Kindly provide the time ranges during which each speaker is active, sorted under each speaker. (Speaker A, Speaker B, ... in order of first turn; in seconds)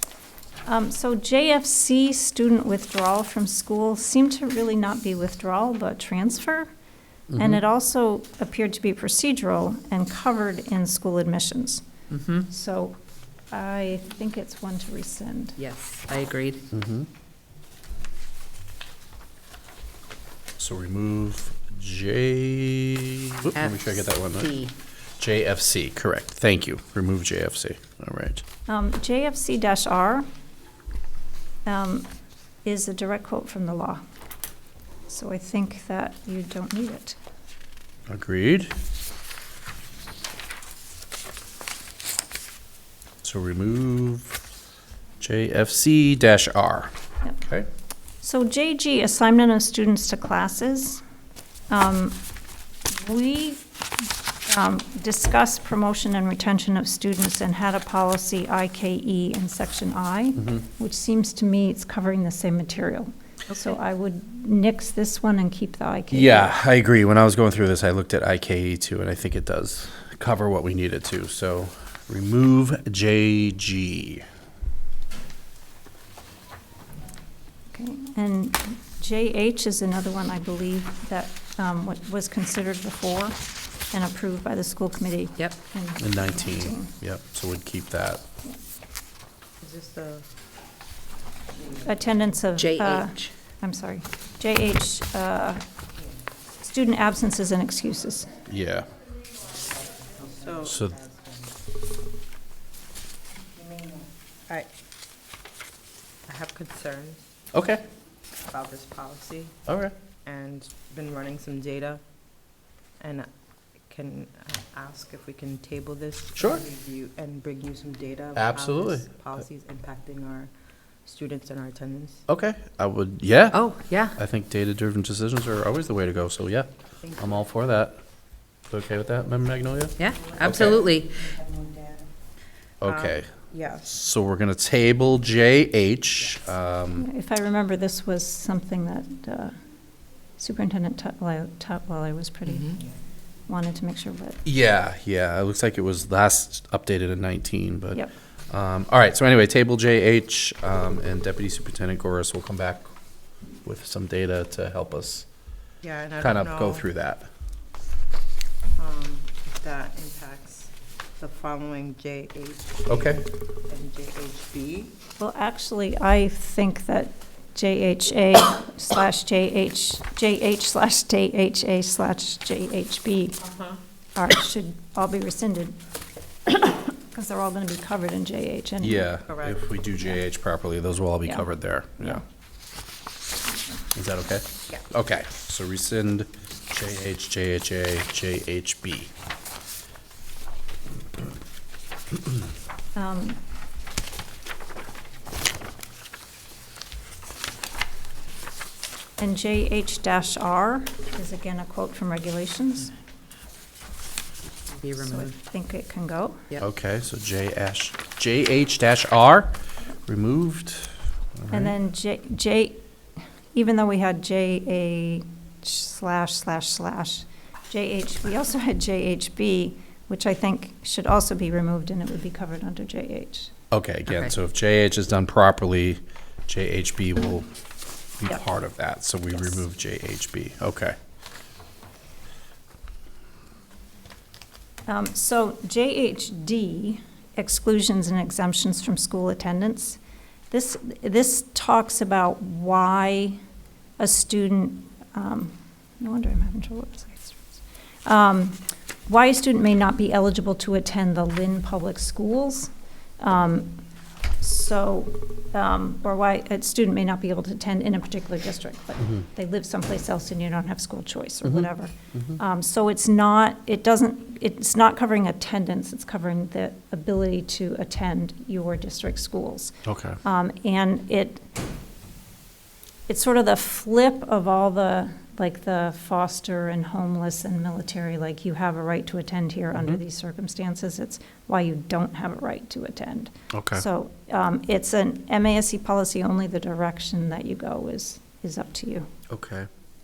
Speaker A: 0.7-6.7, 7.3-11.9, 12.5-13.0, 13.5-15.6, 28.7-30.3, 31.7-32.1, 32.6-34.0, 35.1-37.2, 48.2-51.0, 51.7-52.2, 52.9-53.6, 54.5-66.5, 77.7-83.4, 83.9-86.9, 91.8-95.6, 96.6-98.3, 137.0-139.5, 140.4-142.8, 143.5-144.4, 165.2-173.4, 174.2-175.8, 176.5-179.1, 192.9-193.4, 199.2-202.9, 205.0-206.4, 211.5-212.8, 213.5-223.5, 234.9-240.0, 240.5-243.4, 244.0-253.8, 254.4-271.4, 273.1-289.1
Speaker B: 7.3-7.6, 16.7-17.1, 20.6-24.5, 25.2-28.4, 38.1-38.7, 43.2-44.4, 45.2-47.7, 66.1-74.3, 86.0-88.2, 98.5-98.9, 100.7-101.0, 107.5-107.8, 109.7-109.9, 116.4-116.6, 118.4-119.1, 122.3-128.0, 128.7-130.8, 132.8-137.1, 144.4-152.9, 153.7-155.3, 156.2-157.3, 162.9-163.2, 178.8-182.2, 183.9-189.1, 206.6-211.8, 223.7-227.5, 228.2-231.0, 261.4-262.4, 269.9-270.2, 279.8-280.0, 283.5-283.9, 289.3-289.7
Speaker C: 12.1-12.5, 15.6-16.7, 23.6-24.7, 92.6-93.3, 123.5-124.2, 130.0-131.3, 204.8-205.3
Speaker D: 89.6-90.2, 100.1-101.3, 103.6-104.7, 106.3-107.3, 108.5-109.6, 110.3-112.0, 113.0-113.3, 113.9-120.5, 121.0-122.2, 127.0-127.3, 130.6-132.1, 132.8-133.8, 142.5-142.8, 155.8-156.8, 158.8-164.9, 179.3-179.6